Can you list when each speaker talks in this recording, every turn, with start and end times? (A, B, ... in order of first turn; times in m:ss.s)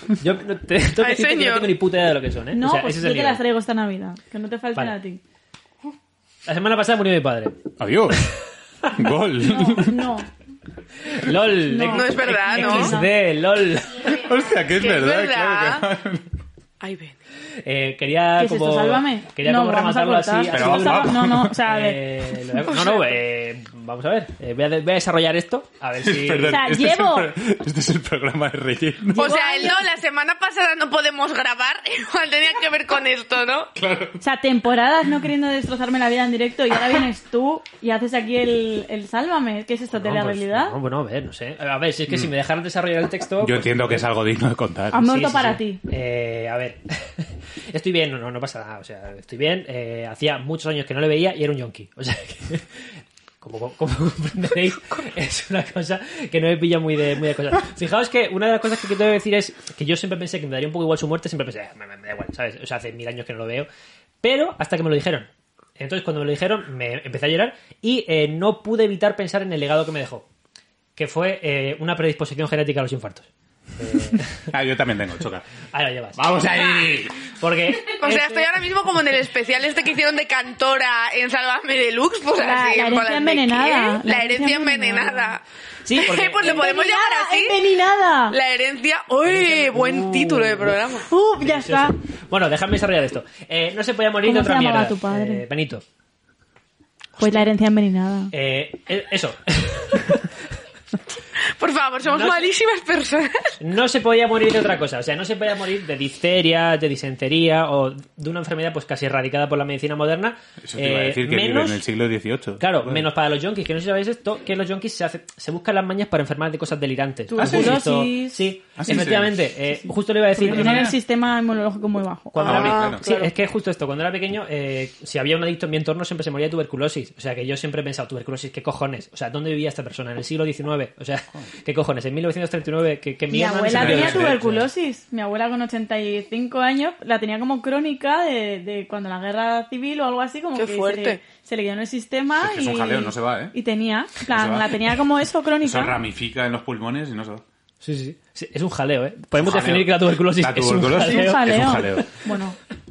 0:00.2-0:03.4 A
0:01.0-0:01.7 B
0:02.5-0:05.2 C
0:06.4-0:07.6 A
0:07.8-0:08.2 D
0:08.1-0:08.9 A
0:08.9-0:10.0 D
0:09.4-0:10.3 C
0:11.0-0:14.2 A
0:11.6-0:13.2 C
0:11.9-0:12.9 B
0:14.1-0:16.2 D
0:14.7-0:15.8 B
0:16.8-0:17.2 B
0:17.6-0:26.6 A
0:18.4-0:22.0 C
0:20.5-0:21.5 D
0:22.7-0:23.2 B
0:26.0-0:29.3 D
0:26.5-0:27.3 C
0:29.1-0:29.9 C
0:29.2-0:33.7 B
0:33.7-0:34.2 D
0:34.2-0:40.8 C
0:39.9-0:44.0 A
0:43.4-0:45.2 D
0:44.9-0:45.8 C
0:45.0-0:52.9 A
0:53.4-1:03.7 A
1:04.2-1:05.3 A
1:05.8-1:10.2 A
1:11.0-1:14.5 A
1:14.5-1:15.4 D
1:15.7-1:16.4 A
1:16.1-1:17.2 D
1:17.2-1:18.5 A
1:17.9-1:25.4 B
1:22.4-1:25.4 C
1:25.8-1:26.7 A
1:26.0-1:27.6 B
1:26.4-1:28.4 C
1:28.3-1:31.1 B
1:29.2-1:35.8 A
1:31.1-1:31.9 C
1:34.2-1:35.4 C
1:37.2-1:38.3 C
1:38.3-1:40.3 A
1:41.4-1:43.5 B
1:42.0-1:42.5 A
1:43.6-1:51.8 A
1:50.6-1:53.0 D
1:52.6-2:00.9 A
1:57.3-1:59.0 C
1:57.4-1:57.8 D
1:58.8-1:59.5 D
2:00.3-2:02.5 C
2:00.4-2:01.0 D
2:02.3-2:14.6 A
2:02.4-2:03.3 B
2:02.4-2:03.0 D
2:13.3-2:26.0 C
2:13.7-2:14.4 D
2:20.6-2:21.2 B
2:22.4-2:23.5 D
2:24.3-2:24.9 D
2:25.6-2:27.4 D
2:27.8-2:32.0 A
2:29.4-2:32.0 D
2:31.0-2:32.6 C